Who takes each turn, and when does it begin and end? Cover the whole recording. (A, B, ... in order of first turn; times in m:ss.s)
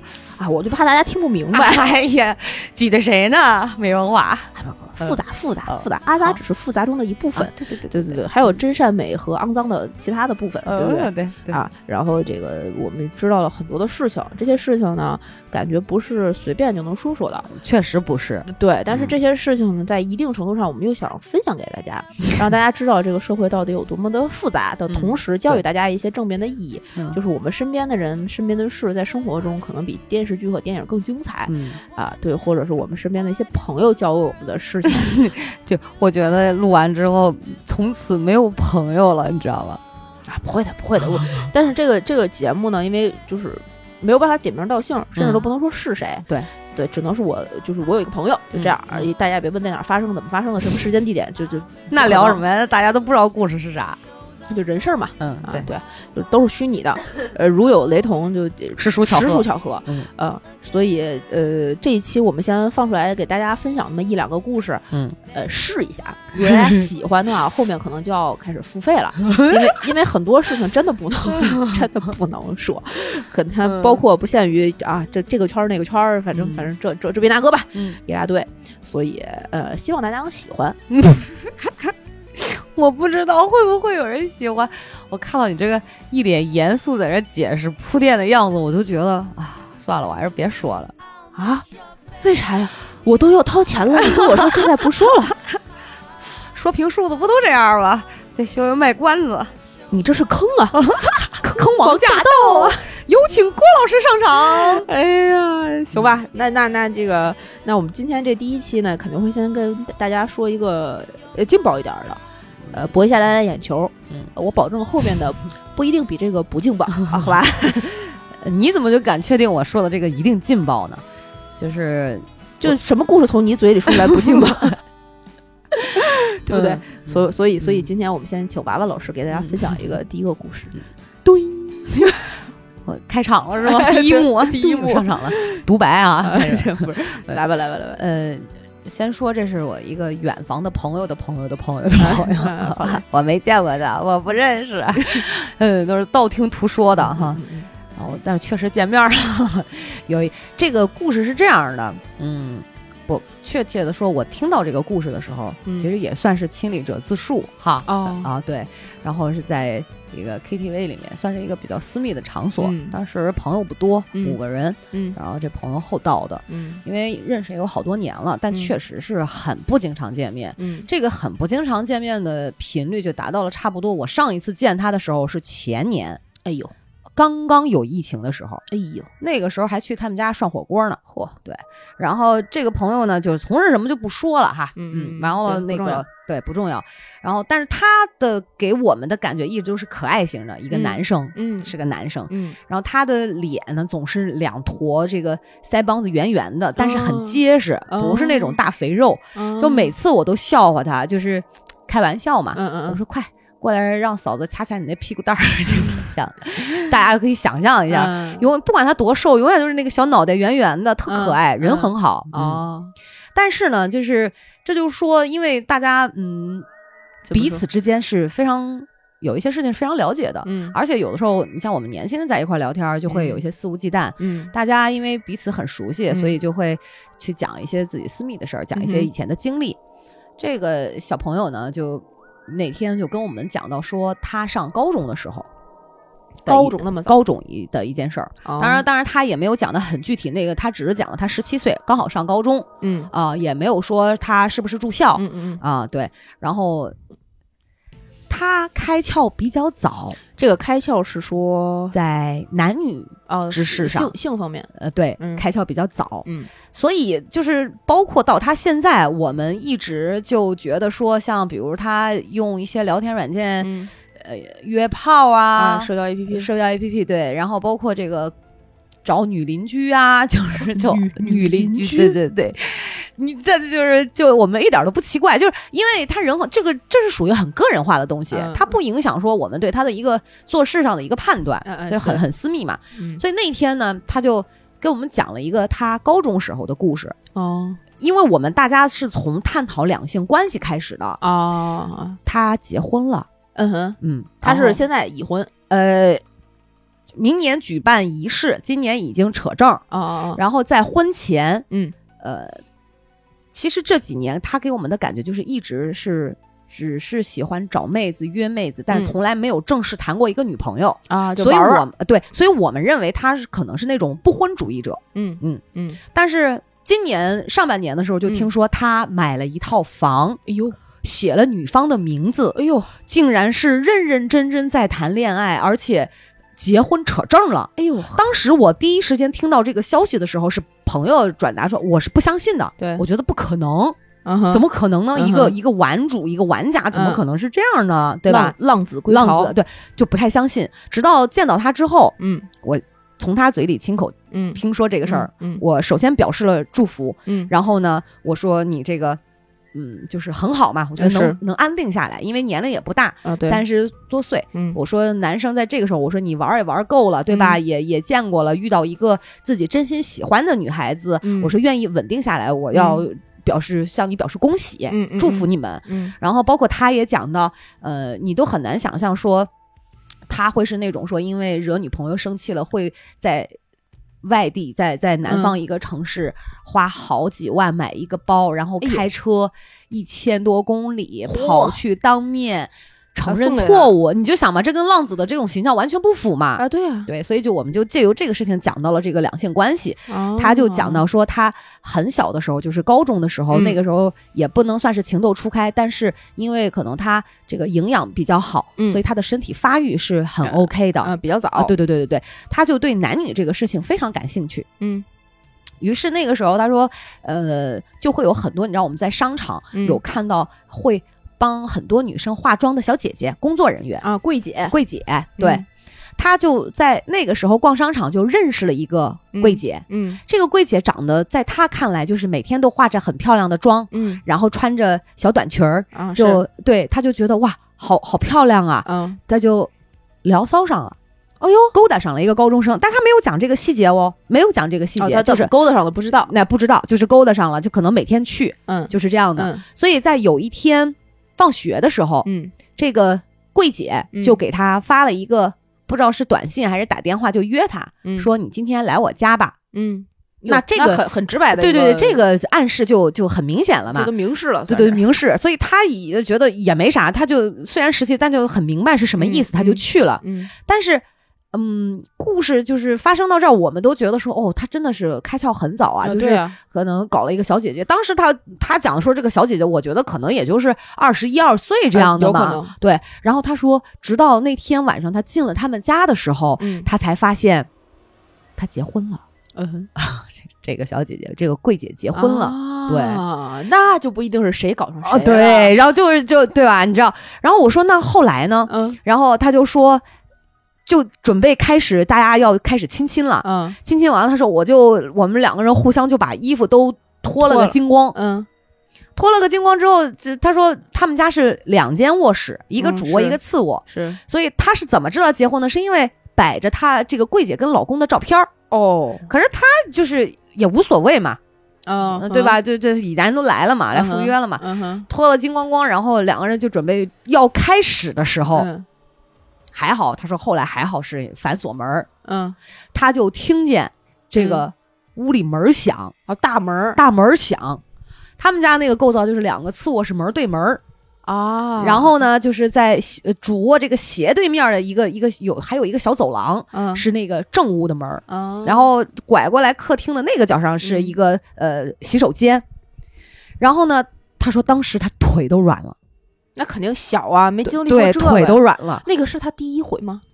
0:00.4-0:01.9 A
0:01.5-0:06.4 B
0:04.6-0:17.5 A
0:07.4-0:08.2 B
0:10.6-0:11.6 B
0:17.5-0:19.1 B
0:18.5-0:35.2 A
0:24.9-0:25.6 B
0:31.5-0:31.8 B
0:34.9-0:39.8 B
0:40.3-0:52.4 A
0:41.2-0:41.5 B
0:45.2-0:45.5 B
0:48.5-0:49.1 B
0:51.9-0:54.0 B
0:54.5-1:20.8 A
0:55.2-0:55.7 B
0:58.8-1:00.1 B
1:04.9-1:05.2 B
1:06.4-1:06.9 B
1:09.2-1:09.7 B
1:11.3-1:11.8 B
1:13.6-1:14.0 B
1:16.3-1:16.7 B
1:20.9-1:31.0 B
1:31.4-1:31.7 A
1:32.2-1:35.4 A
1:34.0-1:35.6 B
1:36.5-1:39.5 B
1:39.9-1:42.9 A
1:40.8-1:44.9 B
1:44.6-1:58.0 A
1:57.9-2:01.0 B
2:01.6-2:02.8 B
2:02.6-2:04.8 A
2:03.9-2:04.7 B
2:05.8-2:12.4 A
2:06.5-2:07.9 B
2:09.3-2:09.8 B
2:12.8-2:17.4 B
2:13.6-2:15.6 A
2:16.2-2:18.0 A
2:18.0-2:27.4 B
2:22.0-2:23.0 A
2:27.0-2:27.7 A
2:28.0-2:56.2 B
2:35.6-2:35.9 A
2:37.9-2:38.3 A
2:42.6-2:43.0 A
2:44.9-2:45.2 A
2:46.5-2:46.8 A
2:50.6-2:50.9 A
2:56.4-2:56.7 A
2:57.2-2:58.6 B
2:58.7-2:59.1 A
2:59.2-3:32.6 B
3:01.1-3:01.4 A
3:04.8-3:06.0 A
3:10.7-3:11.7 A
3:12.3-3:12.6 A
3:16.8-3:18.6 A
3:19.4-3:20.0 A
3:22.6-3:23.0 A
3:27.9-3:28.5 A
3:31.1-3:32.9 A
3:33.4-3:36.7 B
3:37.3-3:37.6 A
3:37.3-3:49.8 B
3:40.4-3:40.8 A
3:43.1-3:43.4 A
3:44.2-3:44.5 A
3:46.1-3:46.4 A
3:48.8-3:49.1 A
3:50.4-3:55.5 B
3:56.4-3:57.2 A
3:56.5-4:07.0 B
3:58.4-3:58.9 A
4:02.8-4:03.1 A
4:05.2-4:05.6 A
4:08.3-4:10.2 B
4:10.4-4:12.0 A
4:11.9-4:14.1 B
4:13.3-4:15.4 A
4:14.8-4:28.3 B
4:16.2-4:16.5 A
4:23.6-4:23.9 A
4:25.6-4:26.5 A
4:29.0-4:47.2 B
4:30.7-4:32.2 A
4:38.3-4:38.8 A
4:41.6-4:42.2 A
4:43.0-4:43.2 A
4:47.4-4:47.8 A
4:48.0-4:51.2 B
4:51.2-4:52.2 A
4:52.3-4:53.3 B
4:53.6-4:55.5 A
4:54.0-4:54.8 B
4:55.7-4:56.2 B
4:57.1-4:59.8 B
4:59.9-5:00.4 A
5:00.4-5:01.6 B
5:01.7-5:02.0 A
5:02.2-5:02.6 B
5:03.5-5:20.4 B
5:08.9-5:09.2 A
5:11.1-5:11.8 A
5:15.2-5:16.0 A
5:20.5-5:20.8 A
5:21.0-5:34.0 B
5:22.6-5:22.9 A
5:27.8-5:28.3 A
5:32.8-5:33.0 A
5:34.2-5:35.6 A
5:34.5-5:38.6 B
5:36.9-5:37.2 A
5:38.3-5:39.6 A
5:39.1-5:49.2 B
5:42.2-5:42.5 A
5:44.3-5:45.6 A
5:47.3-5:47.5 A
5:49.7-6:09.5 B
5:51.0-5:51.4 A
5:53.2-5:53.6 A
5:57.3-5:57.6 A
6:01.2-6:01.6 A
6:02.7-6:03.1 A
6:04.9-6:06.2 A
6:10.3-6:13.5 B
6:14.2-6:44.7 B
6:15.3-6:15.6 A
6:18.8-6:19.1 A
6:21.3-6:21.8 A
6:23.3-6:24.0 A
6:26.6-6:27.1 A
6:30.1-6:31.1 A
6:33.5-6:33.8 A
6:38.8-6:39.0 A
6:40.4-6:41.7 A
6:44.8-6:45.0 A
6:45.8-6:54.0 B
6:49.7-6:50.0 A
6:54.0-6:54.8 A
6:54.7-6:55.6 B
6:55.4-6:55.6 A
6:56.2-7:09.7 B
6:59.3-7:00.2 A
7:03.9-7:04.2 A
7:05.9-7:06.4 A
7:08.8-7:09.2 A
7:10.2-7:11.0 B
7:11.4-7:11.8 A
7:11.7-7:15.5 B
7:15.0-7:16.3 A
7:16.1-7:29.6 B
7:18.7-7:19.6 A
7:22.2-7:22.5 A
7:24.1-7:24.4 A
7:28.0-7:28.3 A
7:29.7-7:32.2 A
7:30.5-7:34.1 B
7:33.9-7:35.0 A
7:34.7-7:57.7 B
7:39.2-7:40.5 A
7:46.0-7:46.6 A
7:51.9-7:52.7 A
7:56.6-7:56.9 A
7:58.6-7:59.2 B
7:59.6-7:59.9 A
8:00.0-8:03.2 B
8:02.1-8:05.7 A
8:05.0-8:10.0 B
8:08.7-8:09.0 A
8:10.9-8:18.2 B
8:13.4-8:13.8 A
8:17.4-8:18.5 A
8:19.2-8:28.5 B
8:22.8-8:24.2 A
8:28.7-8:29.3 A
8:29.3-8:31.4 B
8:31.9-8:32.6 A
8:32.0-8:38.7 B
8:33.9-8:35.1 A
8:38.6-8:38.9 A
8:39.7-8:42.1 B
8:42.2-8:42.6 A
8:42.9-8:46.1 B
8:44.4-8:44.7 A
8:46.3-8:47.0 A
8:47.0-8:47.8 B
8:48.4-8:50.8 B
8:51.3-8:52.2 A
8:51.8-9:02.6 B
8:56.7-8:57.0 A
8:58.3-8:58.9 A
9:00.8-9:01.1 A
9:03.6-9:06.0 B
9:06.6-9:10.2 A
9:07.6-9:09.0 B